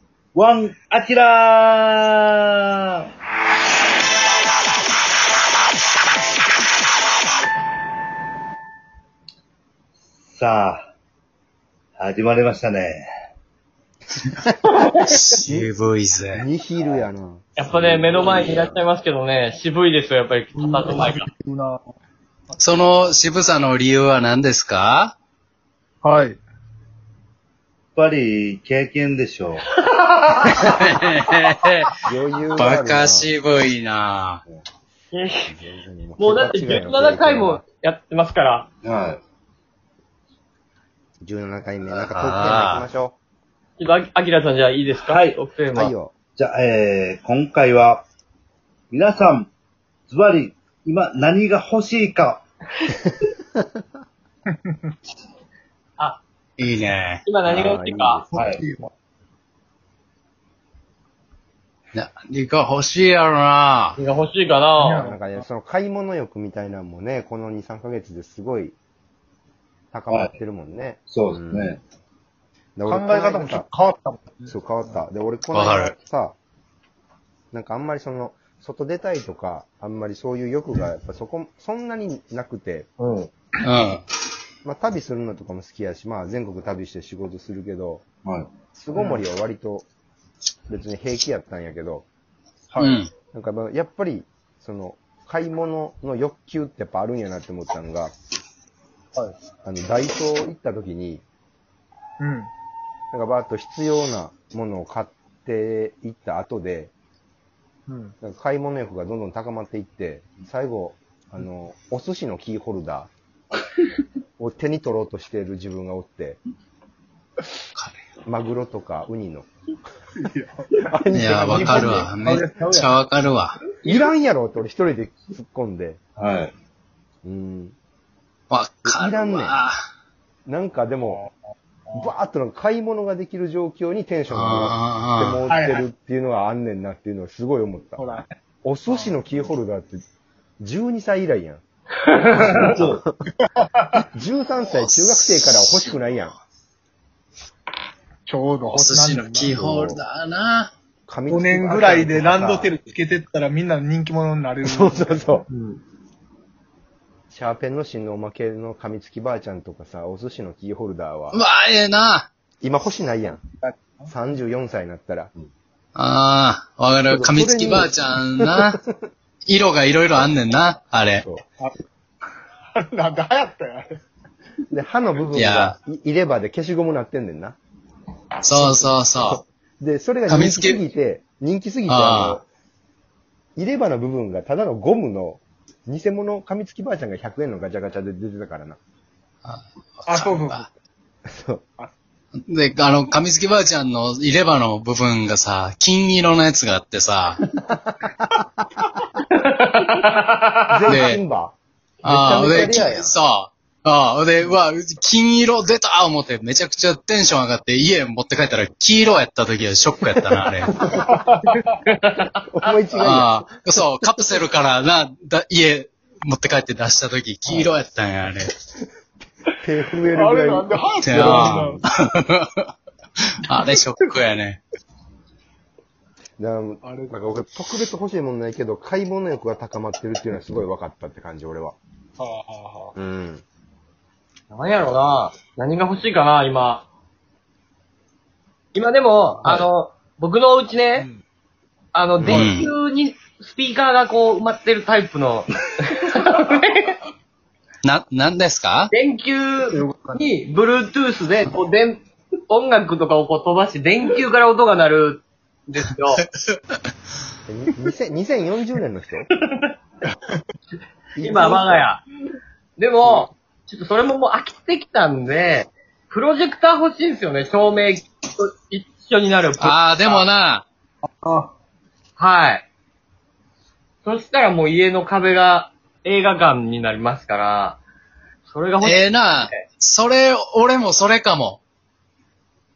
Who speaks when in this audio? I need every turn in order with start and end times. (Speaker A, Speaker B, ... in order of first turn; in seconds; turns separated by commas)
Speaker A: 0.3-3.0, Speaker A: 10.3-10.9, Speaker A: 12.0-13.1, Speaker B: 15.0-16.4, Speaker C: 16.3-18.6, Speaker D: 17.6-21.3, Speaker A: 18.2-18.6, Speaker E: 20.6-21.8, Speaker B: 22.6-25.1, Speaker E: 26.0-26.4, Speaker A: 28.0-29.6, Speaker D: 29.8-30.8, Speaker B: 30.6-31.9, Speaker C: 32.1-33.3, Speaker B: 32.6-34.4, Speaker D: 35.1-35.5, Speaker C: 35.5-37.6, Speaker D: 36.2-38.7, Speaker A: 38.8-39.2, Speaker C: 41.2-43.2, Speaker B: 42.0-42.9, Speaker D: 43.8-45.9, Speaker A: 45.0-45.4, Speaker C: 45.7-46.1, Speaker A: 46.4-48.0, Speaker A: 48.9-49.5, Speaker A: 50.1-52.4, Speaker E: 54.5-54.9, Speaker D: 56.0-56.2, Speaker B: 56.6-57.2, Speaker D: 57.2-58.2, Speaker C: 57.5-58.4, Speaker E: 58.3-58.9, Speaker A: 58.4-58.6, Speaker B: 61.9-64.0, Speaker D: 64.0-65.0, Speaker E: 64.8-65.4, Speaker C: 65.0-68.8, Speaker C: 69.9-71.7, Speaker A: 71.1-71.8, Speaker C: 72.8-73.7, Speaker E: 72.9-74.5, Speaker C: 74.5-76.4, Speaker B: 75.5-76.0, Speaker C: 77.5-82.9, Speaker D: 83.0-83.3, Speaker B: 83.6-84.0, Speaker C: 84.6-88.0, Speaker A: 88.2-88.5, Speaker C: 88.8-89.9, Speaker C: 90.7-92.1, Speaker E: 92.7-93.0, Speaker B: 92.8-93.1, Speaker C: 93.3-98.1, Speaker C: 99.7-101.2, Speaker E: 102.2-102.5, Speaker C: 103.1-106.9, Speaker E: 107.9-108.1, Speaker C: 108.2-113.1, Speaker C: 114.4-116.4, Speaker C: 118.3-119.5, Speaker E: 120.2-120.7, Speaker C: 120.8-122.1, Speaker B: 121.1-123.6, Speaker A: 121.5-122.9, Speaker E: 121.6-122.7, Speaker C: 123.8-126.0, Speaker A: 126.2-126.5, Speaker C: 127.2-127.8, Speaker B: 128.5-129.8, Speaker C: 128.8-129.6, Speaker C: 130.5-131.2, Speaker E: 131.0-131.3, Speaker C: 131.9-140.0, Speaker B: 134.3-135.4, Speaker E: 135.5-135.8, Speaker E: 138.0-138.3, Speaker E: 138.9-139.1, Speaker C: 140.6-141.6, Speaker D: 142.0-142.6, Speaker A: 142.3-143.0, Speaker C: 142.5-143.2, Speaker E: 143.4-144.0, Speaker C: 144.0-146.4, Speaker E: 148.3-149.6, Speaker B: 148.7-150.7, Speaker C: 149.5-150.0, Speaker C: 151.1-152.8, Speaker E: 151.3-155.4, Speaker C: 154.6-155.5, Speaker D: 155.5-155.8, Speaker C: 157.3-161.4, Speaker B: 161.3-162.3, Speaker C: 162.6-163.4, Speaker E: 163.6-164.1, Speaker C: 164.1-165.3, Speaker B: 165.9-168.8, Speaker C: 167.1-169.0, Speaker B: 169.4-171.3, Speaker E: 172.8-174.0, Speaker C: 174.7-177.6, Speaker B: 175.3-175.8, Speaker B: 178.4-179.4, Speaker C: 178.5-182.4, Speaker B: 180.3-180.8, Speaker B: 181.9-182.4, Speaker C: 183.6-188.8, Speaker B: 189.4-190.7, Speaker E: 190.1-190.7, Speaker C: 191.3-191.6, Speaker B: 192.4-197.4, Speaker C: 197.6-198.6, Speaker D: 199.3-200.6, Speaker C: 200.7-203.1, Speaker B: 200.9-201.2, Speaker B: 202.0-210.8, Speaker C: 210.8-211.1, Speaker E: 210.9-211.8, Speaker D: 211.9-212.3, Speaker C: 212.5-214.2, Speaker B: 213.0-218.5, Speaker C: 219.6-221.8, Speaker E: 220.2-221.8, Speaker B: 221.0-222.7, Speaker B: 223.3-224.6, Speaker C: 226.4-231.8, Speaker E: 226.8-227.1, Speaker E: 232.2-232.9, Speaker C: 233.0-233.4, Speaker D: 234.5-236.9, Speaker D: 238.7-241.1, Speaker D: 241.9-246.9, Speaker B: 242.3-242.7, Speaker B: 247.8-248.9, Speaker D: 248.9-256.2, Speaker E: 249.7-250.2, Speaker C: 257.5-259.3, Speaker C: 261.2-261.9, Speaker D: 261.2-262.1, Speaker D: 262.8-270.3, Speaker B: 269.6-270.6, Speaker E: 271.1-271.5, Speaker D: 272.2-272.7, Speaker D: 274.0-277.8, Speaker D: 278.5-279.6, Speaker B: 278.8-281.6